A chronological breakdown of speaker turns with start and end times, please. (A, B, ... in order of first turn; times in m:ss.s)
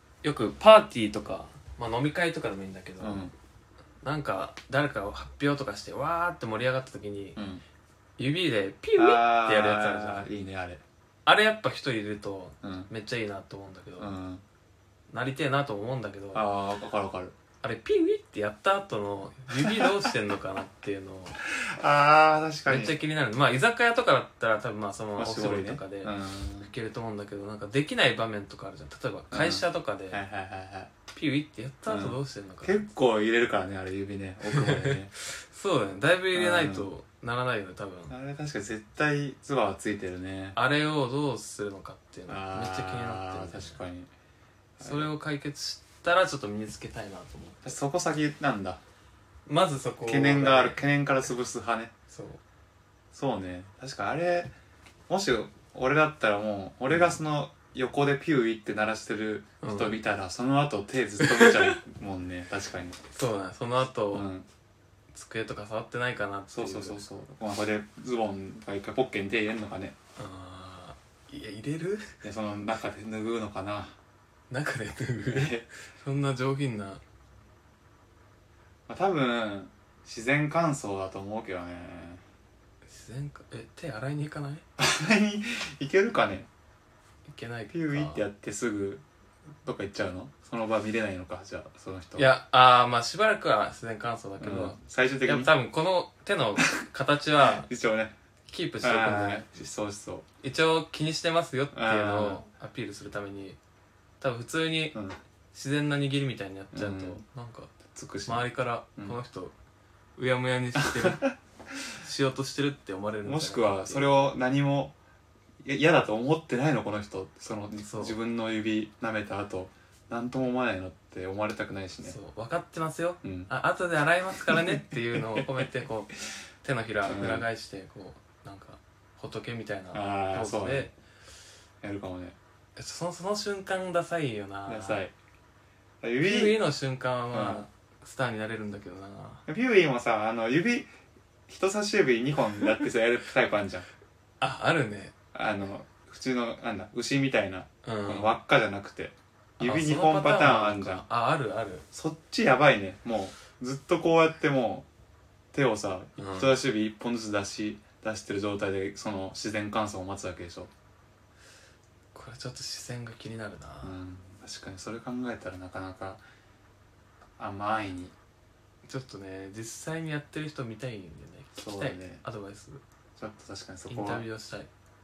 0:00.2-0:03.3 A
0:03.0-0:03.3 B
0:04.0-0:07.4 A
0:07.4-0:07.6 B
0:08.2-0:10.3 A
0:09.0-0:10.8 B
0:11.2-0:14.1 A
0:12.6-0:12.9 B
0:14.0-0:14.4 B
0:15.1-0:16.4 A
0:16.3-0:17.3 B
0:17.6-0:21.4 A
0:21.7-0:22.9 B
0:22.6-0:30.2 A
0:25.2-0:26.7 B
0:29.3-0:30.9 B
0:31.1-0:32.8 A
0:31.9-0:35.1 B
0:34.5-0:38.1 A
0:36.3-0:36.9 B
0:38.1-0:40.6 B
0:40.5-0:43.8 A
0:42.3-0:44.1 B
0:44.8-0:45.1 B
0:44.8-0:47.8 A
0:47.6-0:48.8 B
0:49.4-0:50.8 A
0:50.0-0:51.9 B
0:52.1-0:52.4 A
0:53.1-0:54.5 B
0:55.1-1:03.0 B
0:59.6-1:00.0 A
1:01.2-1:01.7 A
1:03.1-1:04.3 A
1:04.1-1:04.5 B
1:05.1-1:07.0 A
1:06.5-1:09.9 B
1:10.2-1:12.1 A
1:12.2-1:13.9 B
1:14.5-1:17.0 A
1:15.3-1:15.7 B
1:18.9-1:22.2 B
1:22.8-1:24.6 A
1:24.8-1:26.5 B
1:27.3-1:28.2 A
1:27.7-1:29.0 B
1:29.6-1:32.3 B
1:32.2-1:37.7 A
1:34.4-1:35.5 B
1:37.6-1:38.1 B
1:38.5-1:39.5 A
1:38.8-1:40.2 B
1:40.4-1:43.6 A
1:41.7-1:42.4 B
1:44.2-1:45.0 A
1:44.9-1:45.2 B
1:45.5-1:47.7 A
1:46.7-1:47.2 B
1:47.9-1:49.2 B
1:48.2-1:49.5 A
1:50.2-1:51.2 A
1:50.8-1:51.3 B
1:52.0-1:54.0 A
1:53.2-1:54.9 B
1:55.6-2:02.2 B
1:57.8-1:58.2 A
2:02.0-2:10.9 A
2:03.2-2:03.5 B
2:04.4-2:05.4 B
2:07.0-2:07.5 B
2:09.9-2:10.9 B
2:11.8-2:12.4 B
2:12.8-2:15.0 A
2:14.6-2:15.1 B
2:16.0-2:16.6 B
2:16.2-2:19.4 A
2:17.3-2:17.6 B
2:19.5-2:20.9 B
2:21.5-2:23.9 B
2:24.4-2:25.1 A
2:25.3-2:31.0 B
2:27.8-2:28.3 A
2:29.6-2:31.8 A
2:31.9-2:34.9 B
2:35.5-2:40.7 B
2:36.2-2:36.5 A
2:42.1-2:44.0 A
2:43.8-2:46.2 B
2:47.4-2:48.1 B
2:48.8-2:52.8 A
2:51.6-2:52.2 B
2:53.2-2:54.3 B
2:53.9-2:54.7 A